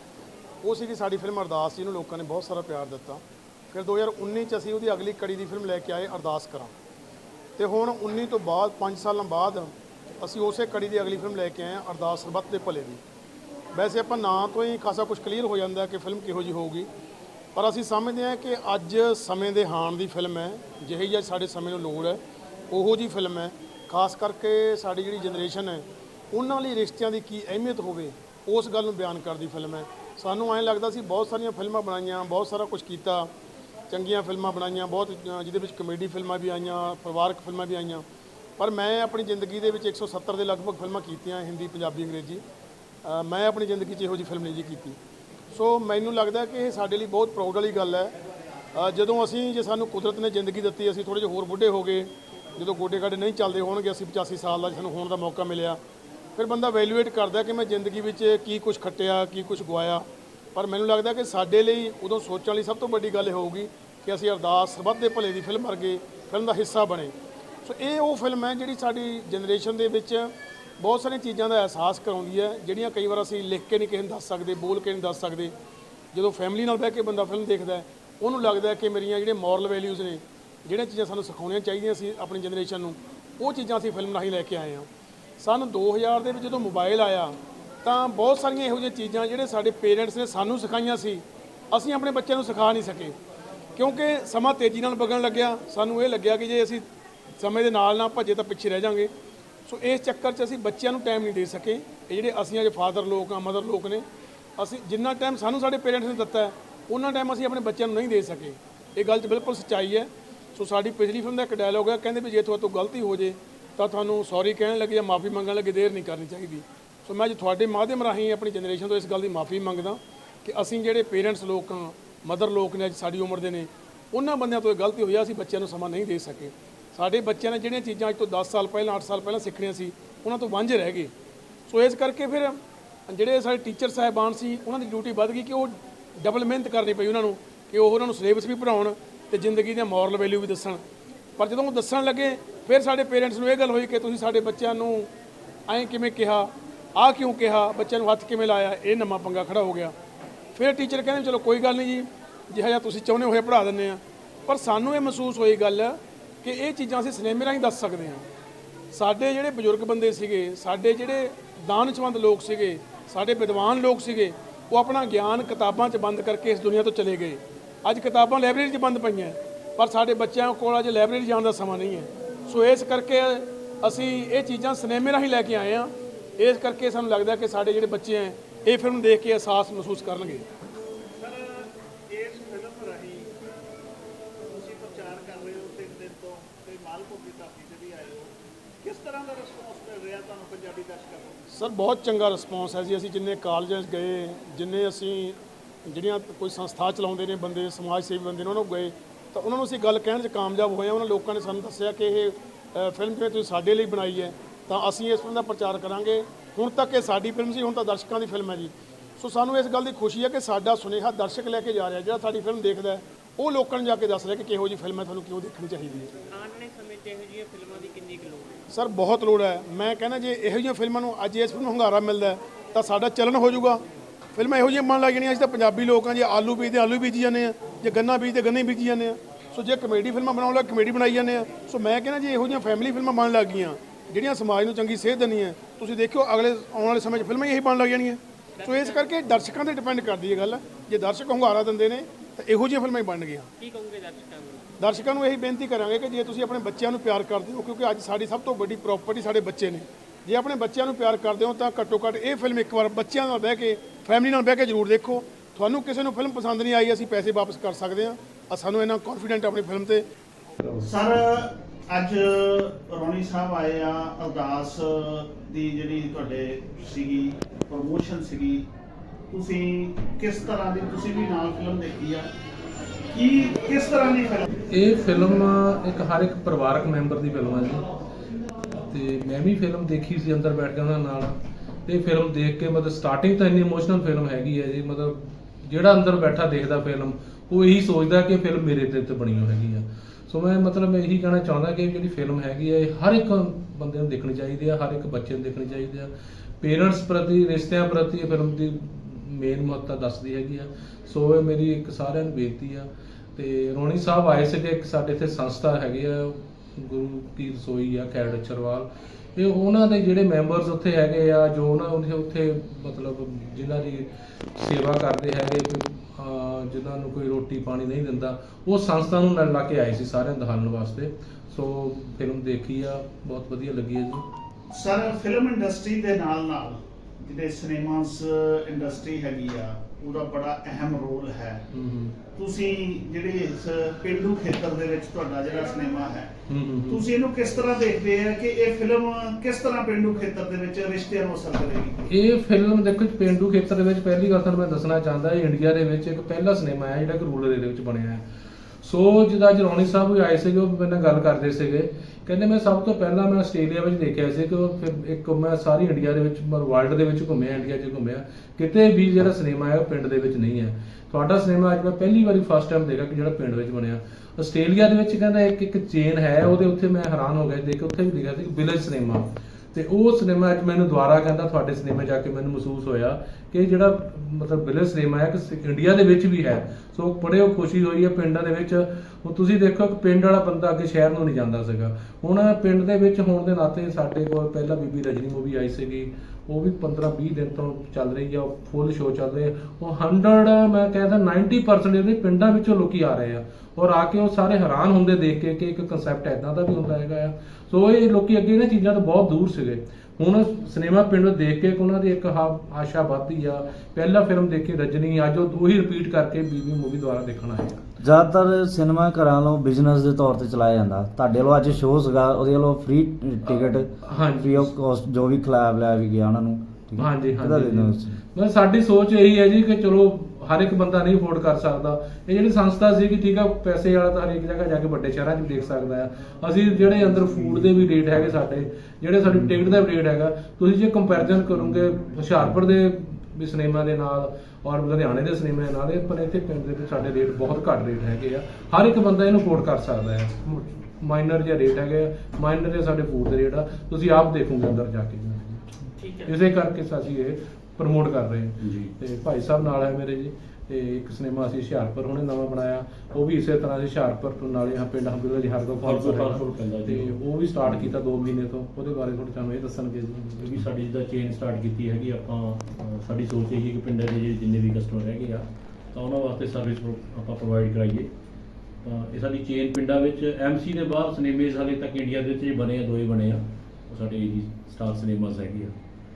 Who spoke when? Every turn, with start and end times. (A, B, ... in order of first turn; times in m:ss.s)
0:00.6-0:06.7 A
0:07.6-0:13.0 A
0:13.7-0:16.9 A
0:17.5-0:22.2 A
0:22.7-0:33.3 A
0:33.9-0:38.0 A
0:38.6-0:42.4 A
0:43.0-0:45.0 A
0:45.5-0:48.1 A
0:48.7-0:55.8 A
0:56.4-1:07.1 A
1:07.6-1:15.5 A
1:16.1-1:24.9 A
1:25.4-1:33.2 A
1:33.7-1:36.8 A
1:37.4-1:39.1 A
1:39.7-1:44.0 A
1:44.6-2:11.1 A
2:11.7-2:20.8 A
2:21.4-2:25.1 A
2:25.7-2:29.9 A
2:30.5-2:38.2 A
2:38.9-3:00.4 A
3:01.2-3:03.3 B
3:04.5-3:08.3 B
3:08.8-3:11.4 B
3:11.5-3:36.1 A
3:36.3-3:38.6 C
3:38.7-3:43.8 A
3:44.3-4:03.5 A
3:58.6-3:59.1 C
4:03.6-4:04.7 C
4:04.8-4:20.0 A
4:20.8-4:28.7 B
4:29.3-4:32.3 B
4:33.1-4:34.4 B
4:34.7-4:37.8 D
4:38.9-4:41.3 D
4:41.8-5:24.2 D
5:24.7-5:31.6 B
5:31.7-5:32.2 D
5:32.4-5:36.3 B
5:36.5-5:37.0 D
5:36.9-5:41.9 B
5:42.1-5:48.2 D
5:48.8-6:47.8 D
6:48.0-6:58.2 E
6:53.4-6:54.7 D
6:57.0-7:25.6 D
7:26.0-7:26.4 C
7:26.2-7:40.6 D
7:28.6-7:28.9 F
7:35.8-7:38.0 F
7:40.4-7:48.1 F
7:48.8-7:55.7 F